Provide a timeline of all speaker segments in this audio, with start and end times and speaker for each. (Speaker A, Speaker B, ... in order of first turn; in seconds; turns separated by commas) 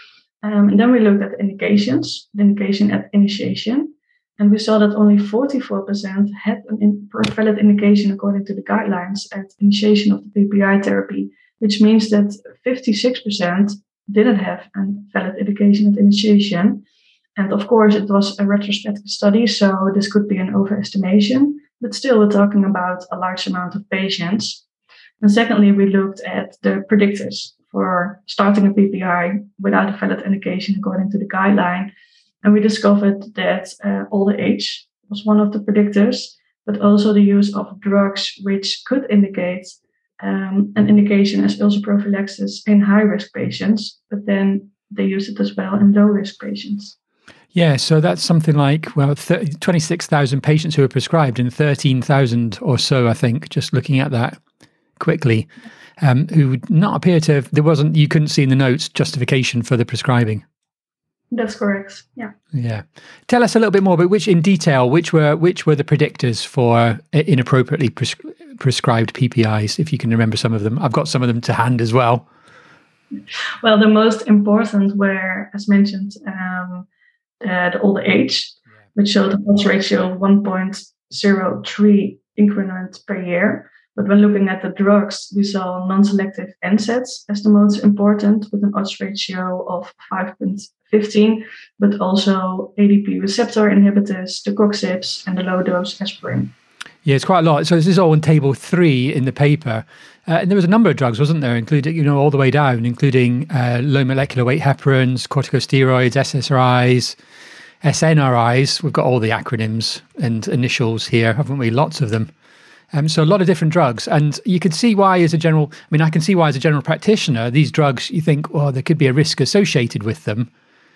Speaker A: 0.4-16.9, Speaker A: 17.4-24.6, Speaker A: 25.2-31.9, Speaker A: 32.4-47.0, Speaker B: 47.5-54.4, Speaker B: 55.0-55.5, Speaker B: 56.0-60.5, Speaker A: 61.3-62.3, Speaker B: 62.5-72.3, Speaker A: 73.6-76.9, Speaker A: 77.4-96.5, Speaker B: 97.0-107.2, Speaker B: 107.8-112.3, Speaker B: 112.9-120.5